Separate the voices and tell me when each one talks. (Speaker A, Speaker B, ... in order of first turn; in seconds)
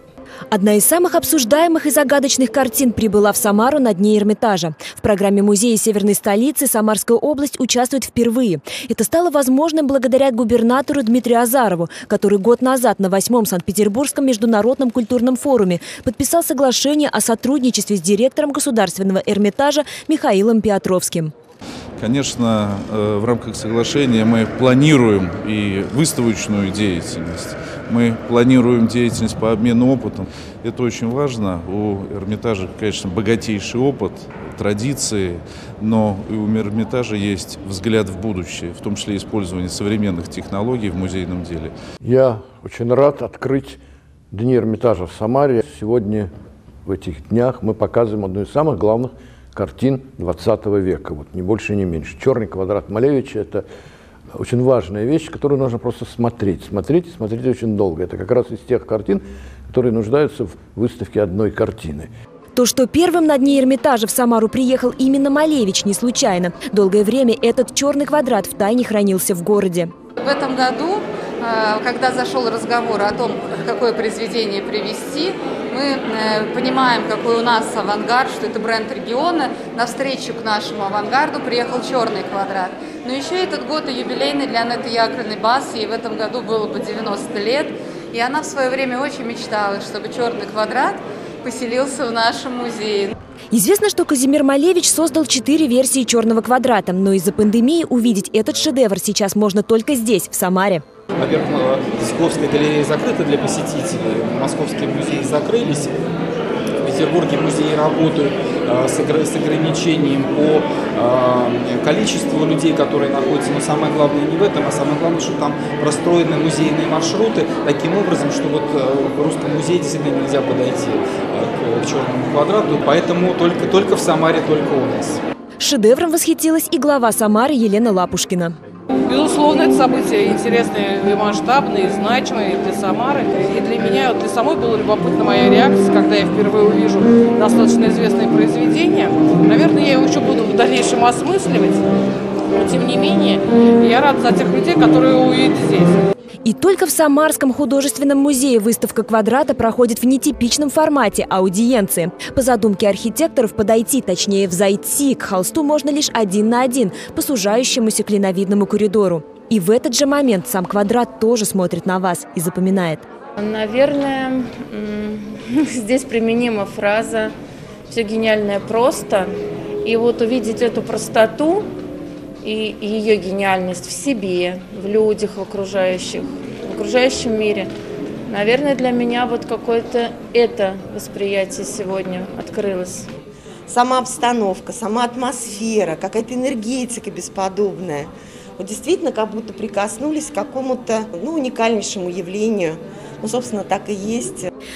Speaker A: 0.5-21.3, 62.5-69.9, 93.5-100.8, 125.6-128.6, 146.4-163.1
Speaker B: 22.0-41.7
Speaker C: 42.0-43.8, 44.3-46.3, 46.9-53.6, 54.4-62.1
Speaker D: 70.2-93.2
Speaker E: 101.2-106.0, 106.8-125.2
Speaker F: 129.1-141.9, 142.5-146.0
Speaker G: 163.4-167.3, 167.9-169.3, 169.8-171.7, 172.4-177.7, 178.3-183.1
Speaker H: 183.7-194.5